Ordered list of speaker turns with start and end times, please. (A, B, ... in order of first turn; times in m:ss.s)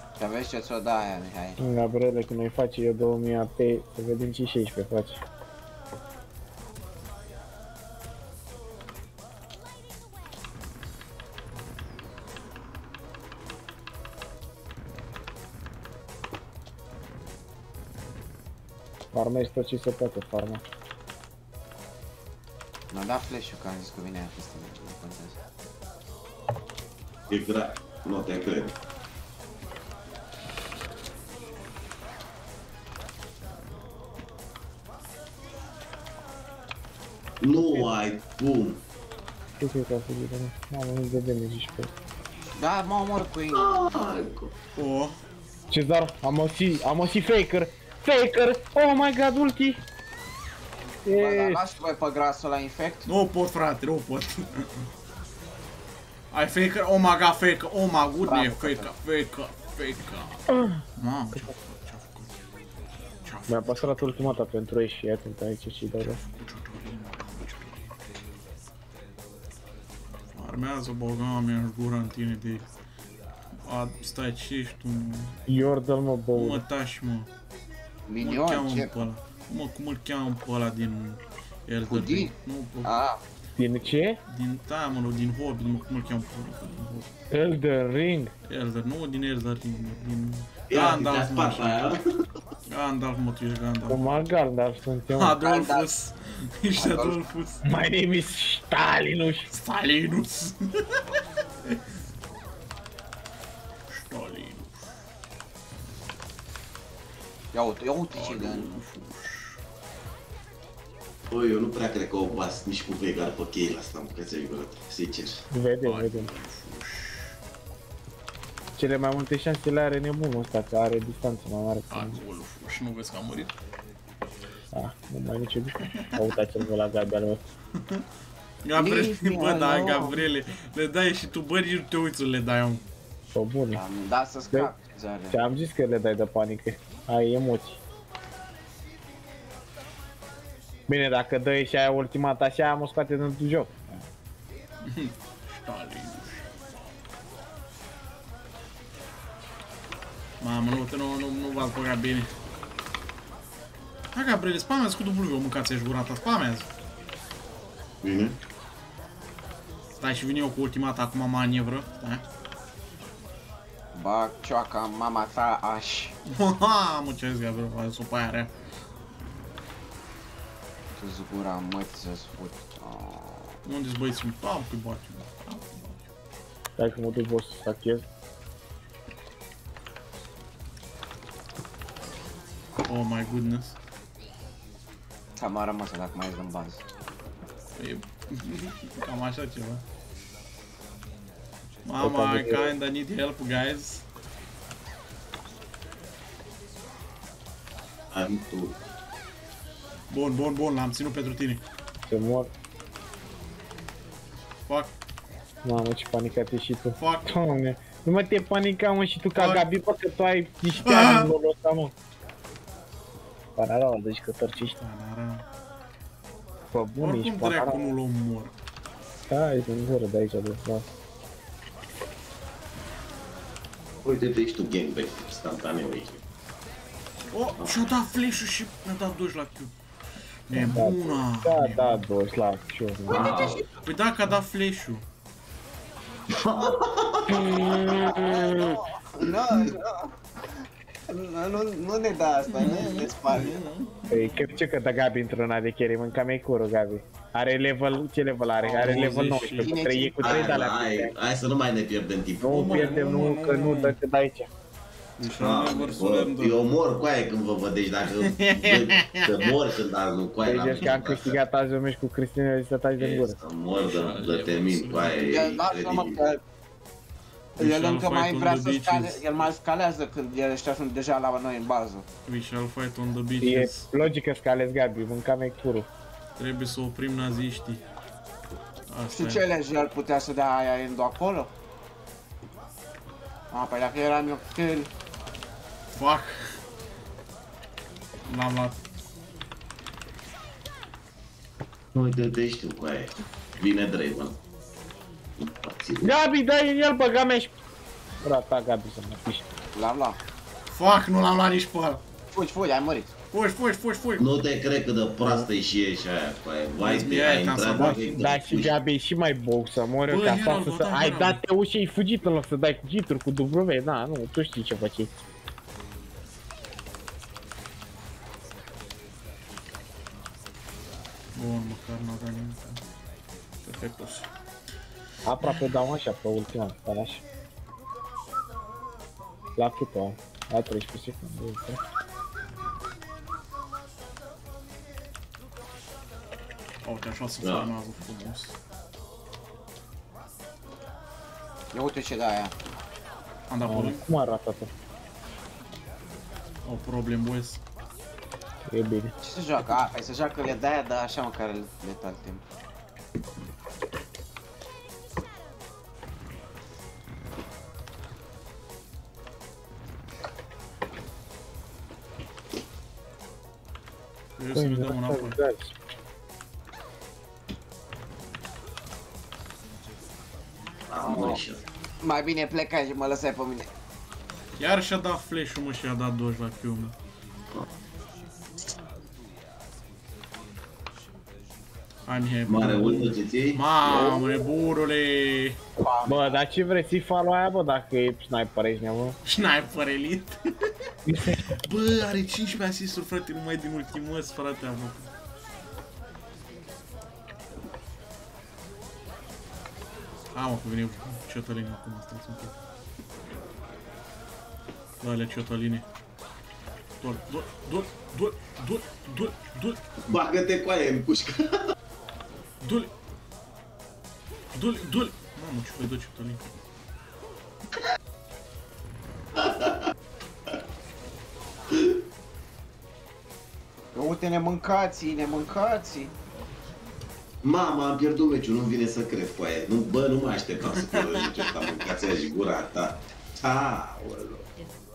0:00.2-0:01.6 A
0:01.6-0:05.2 B
0:19.1-0:20.6 B
0:22.9-0:25.4 A
0:27.3-0:28.7 C
0:37.4-0:38.8 C
0:39.6-0:41.9 B
0:42.6-0:43.9 A
0:43.5-0:44.5 C
0:44.8-0:45.2 D
0:45.7-0:49.8 B
0:51.0-0:51.7 B
0:51.1-0:53.1 A
0:53.1-0:54.9 D
0:56.3-1:00.4 D
0:58.2-0:58.9 A
1:00.5-1:00.8 B
1:01.0-1:02.3 D
1:03.2-1:04.4 D
1:03.5-1:06.2 B
1:06.0-1:07.9 D
1:10.3-1:12.7 D
1:13.6-1:15.4 D
1:15.5-1:16.6 B
1:16.3-1:17.3 D
1:18.1-1:18.9 A
1:18.2-1:22.9 D
1:21.9-1:22.3 A
1:22.8-1:23.2 A
1:23.6-1:24.2 B
1:24.3-1:27.1 D
1:27.3-1:28.3 B
1:28.5-1:31.9 D
1:30.7-1:32.0 C
1:32.7-1:34.2 D
1:33.9-1:35.4 B
1:35.1-1:37.6 D
1:35.3-1:35.9 A
1:36.7-1:37.2 A
1:37.6-1:39.5 B
1:39.5-1:41.0 D
1:43.9-1:44.9 D
1:47.5-1:48.7 A
1:48.1-1:49.6 D
1:51.3-1:55.4 C
1:55.5-1:56.3 B
1:55.8-1:57.4 D
1:58.8-2:02.2 B
2:01.9-2:03.5 D
2:04.7-2:07.4 B
2:07.8-2:08.0 D
2:08.6-2:12.8 D
2:08.8-2:10.2 A
2:13.4-2:13.8 B
2:13.7-2:15.4 A
2:15.3-2:17.8 B
2:20.9-2:24.0 B
2:24.8-2:26.5 D
2:30.4-2:32.3 D
2:34.1-2:36.7 D
2:38.0-2:38.4 C
2:40.0-2:42.2 D
2:43.9-2:46.2 A
2:46.3-2:48.5 D
2:51.0-2:53.5 A
2:53.6-2:56.1 D
2:56.8-2:58.0 B
3:02.8-3:03.8 D
3:05.4-3:06.8 A
3:07.8-3:09.8 D
3:11.8-3:14.0 D
3:12.0-3:12.7 B
3:18.1-3:18.8 C
3:20.1-3:21.6 D
3:22.1-3:22.5 B
3:24.7-3:24.9 D
3:25.6-3:31.9 B
3:27.0-3:27.4 D
3:29.3-3:29.6 D
3:30.7-3:31.3 D
3:33.6-3:34.8 B
3:34.6-3:35.4 D
3:36.7-3:37.9 B
3:37.0-3:38.5 D
3:39.3-3:40.9 B
3:44.0-3:46.2 C
3:47.3-3:49.7 D
3:50.5-3:52.0 D
3:50.5-3:53.5 B
3:53.1-3:53.7 A
3:53.1-3:53.7 C
3:53.8-3:55.1 D
3:56.4-3:58.0 C
3:57.3-3:58.7 B
3:58.0-4:00.1 A
3:59.2-3:59.7 C
4:01.1-4:03.6 A
4:02.5-4:04.4 D
4:04.1-4:11.1 B
4:08.6-4:09.8 D
4:09.6-4:10.6 A
4:10.2-4:12.9 C
4:12.4-4:14.5 B
4:12.5-4:14.0 D
4:15.2-4:16.8 D
4:15.2-4:21.4 C
4:18.0-4:19.5 D
4:20.4-4:23.4 B
4:23.0-4:26.2 C
4:23.7-4:25.4 D
4:25.2-4:26.4 A
4:27.6-4:29.5 D
4:27.6-4:32.1 A
4:32.3-4:33.9 D
4:33.4-4:35.9 B
4:36.4-4:37.8 D
4:38.9-4:39.5 D
4:39.1-4:41.5 A
4:43.5-4:44.9 A
4:45.9-4:46.6 D
4:48.3-4:48.8 D
4:51.9-4:54.4 C
4:55.4-4:56.1 C
4:56.0-4:57.5 B
4:58.2-4:59.5 B
4:59.8-5:00.2 A
5:00.7-5:02.0 D
5:02.3-5:03.1 A
5:03.3-5:04.4 D
5:04.2-5:08.7 C
5:05.2-5:05.5 D
5:06.8-5:08.0 D
5:08.1-5:15.1 B
5:10.0-5:11.4 D
5:21.4-5:22.8 D
5:23.6-5:24.3 D
5:25.3-5:27.2 B
5:29.6-5:31.8 B
5:36.8-5:38.6 D
5:37.4-5:37.7 C
5:41.7-5:42.6 A
5:43.5-5:44.0 D
5:43.7-5:44.7 B
5:46.6-5:47.6 D
5:48.7-5:49.1 B
5:49.2-5:52.4 A
6:04.4-6:05.4 D
6:04.5-6:05.8 B
6:10.9-6:11.6 C
6:11.0-6:11.4 A
6:12.0-6:13.7 A
6:14.6-6:17.0 D
6:22.1-6:25.6 D
6:22.5-6:24.1 C
6:25.8-6:26.4 A
6:26.1-6:29.2 B
6:29.2-6:30.4 D
6:31.1-6:31.4 B
6:31.4-6:35.1 D
6:40.3-6:42.5 D
6:45.0-6:45.9 D
6:47.0-6:49.8 D
6:50.0-6:51.6 C
6:52.6-6:52.9 D
6:54.5-6:56.6 D
6:59.4-6:59.8 C
7:04.0-7:06.1 A
7:07.4-7:14.4 C
7:10.6-7:11.7 D